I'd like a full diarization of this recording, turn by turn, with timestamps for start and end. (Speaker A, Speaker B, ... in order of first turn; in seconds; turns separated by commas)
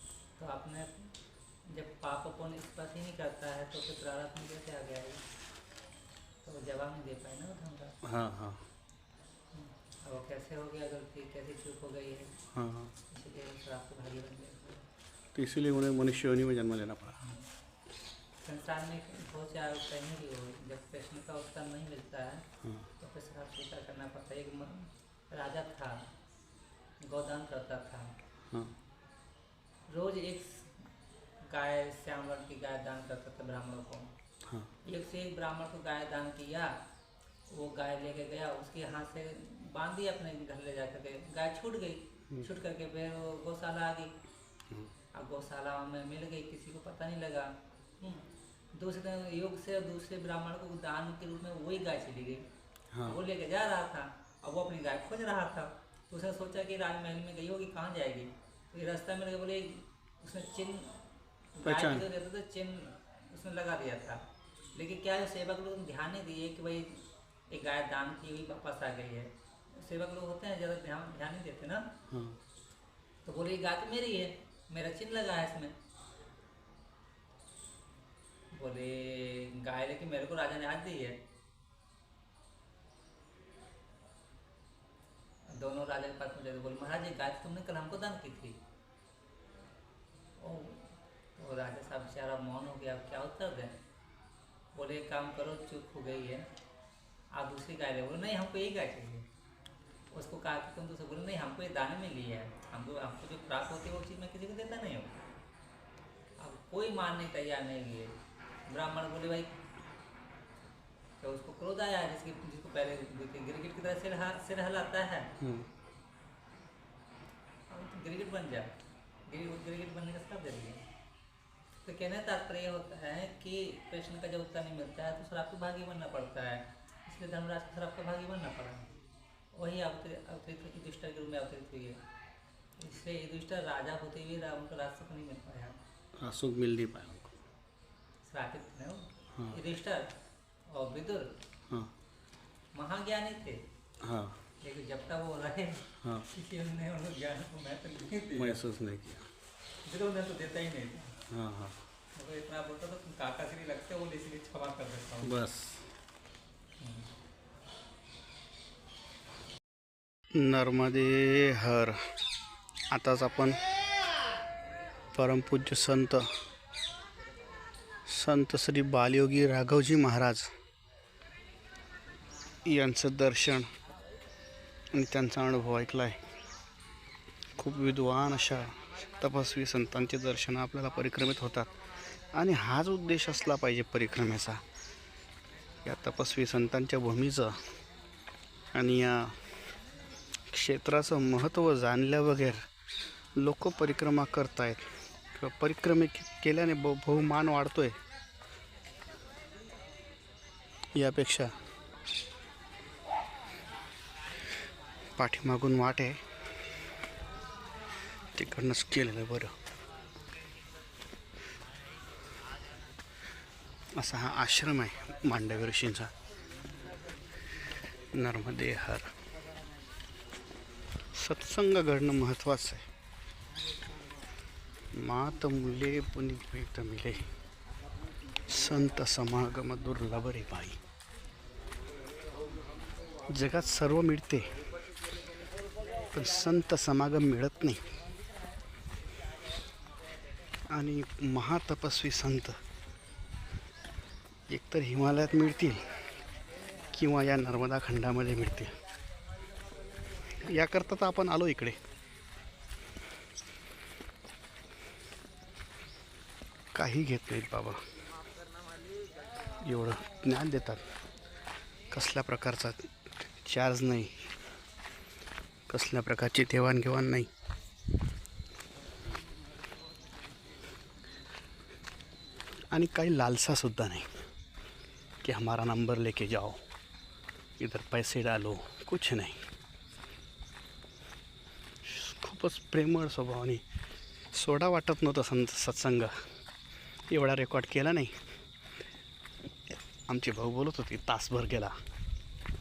Speaker A: 0.4-1.1, Speaker A: 1.7-5.2, Speaker A: 6.4-8.0, Speaker B: 8.0-8.6, Speaker A: 9.5-12.3, Speaker B: 12.5-12.9, Speaker A: 13.1-14.9, Speaker B: 15.3-17.2, Speaker A: 17.2-17.4, Speaker A: 18.4-22.5, Speaker B: 22.6-22.9, Speaker A: 23.0-26.0, Speaker A: 27.0-28.1, Speaker A: 29.9-30.9, Speaker A: 31.4-34.1, Speaker A: 34.9-36.7, Speaker A: 37.5-44.1, Speaker A: 45.1-52.5, Speaker B: 52.9-53.2, Speaker A: 53.0-60.9, Speaker A: 61.6-64.2, Speaker B: 61.6-62.1, Speaker A: 64.7-71.9, Speaker B: 72.1-72.4, Speaker A: 73.2-75.8, Speaker A: 78.5-81.2, Speaker A: 85.5-88.6, Speaker A: 90.4-93.8, Speaker A: 94.8-96.5, Speaker A: 97.3-99.3, Speaker A: 100.1-105.1, Speaker A: 106.4-108.2, Speaker A: 108.7-109.5, Speaker A: 111.2-115.3, Speaker B: 115.4-115.7, Speaker A: 117.7-118.7, Speaker A: 119.3-120.8, Speaker A: 121.8-128.9, Speaker A: 129.5-132.0, Speaker A: 132.8-135.8, Speaker B: 136.2-137.4, Speaker A: 138.2-140.2, Speaker B: 139.3-139.6, Speaker A: 140.7-141.3, Speaker A: 142.8-143.6, Speaker B: 144.0-144.4, Speaker A: 144.6-148.6, Speaker B: 146.0-146.3, Speaker B: 148.3-149.3, Speaker A: 149.8-151.2, Speaker B: 151.3-151.8, Speaker A: 152.2-155.4, Speaker B: 155.2-155.8, Speaker A: 156.8-157.1, Speaker B: 160.3-162.0, Speaker B: 162.9-163.6, Speaker B: 165.1-166.3, Speaker B: 168.1-170.5, Speaker B: 172.7-173.7, Speaker B: 174.9-176.3, Speaker B: 177.6-181.7, Speaker B: 182.3-184.6, Speaker B: 185.8-187.6, Speaker B: 188.7-189.4, Speaker B: 190.5-192.7, Speaker B: 193.4-198.0, Speaker B: 200.9-201.5, Speaker B: 205.2-206.2, Speaker B: 208.3-209.6, Speaker B: 214.0-216.1, Speaker B: 218.1-219.1, Speaker B: 221.1-222.9, Speaker B: 224.9-227.3, Speaker B: 228.5-230.8, Speaker B: 233.3-234.5, Speaker B: 236.1-237.8, Speaker B: 240.7-242.6, Speaker B: 244.5-245.8, Speaker B: 246.9-248.7, Speaker B: 250.4-251.8, Speaker B: 256.8-257.8, Speaker B: 259.6-260.9, Speaker B: 261.9-262.9, Speaker B: 263.4-264.3, Speaker B: 265.7-267.3, Speaker B: 272.7-274.2, Speaker B: 275.2-276.6, Speaker B: 277.6-279.5, Speaker B: 281.8-283.6, Speaker B: 284.3-286.1, Speaker B: 287.1-288.2, Speaker B: 290.1-291.8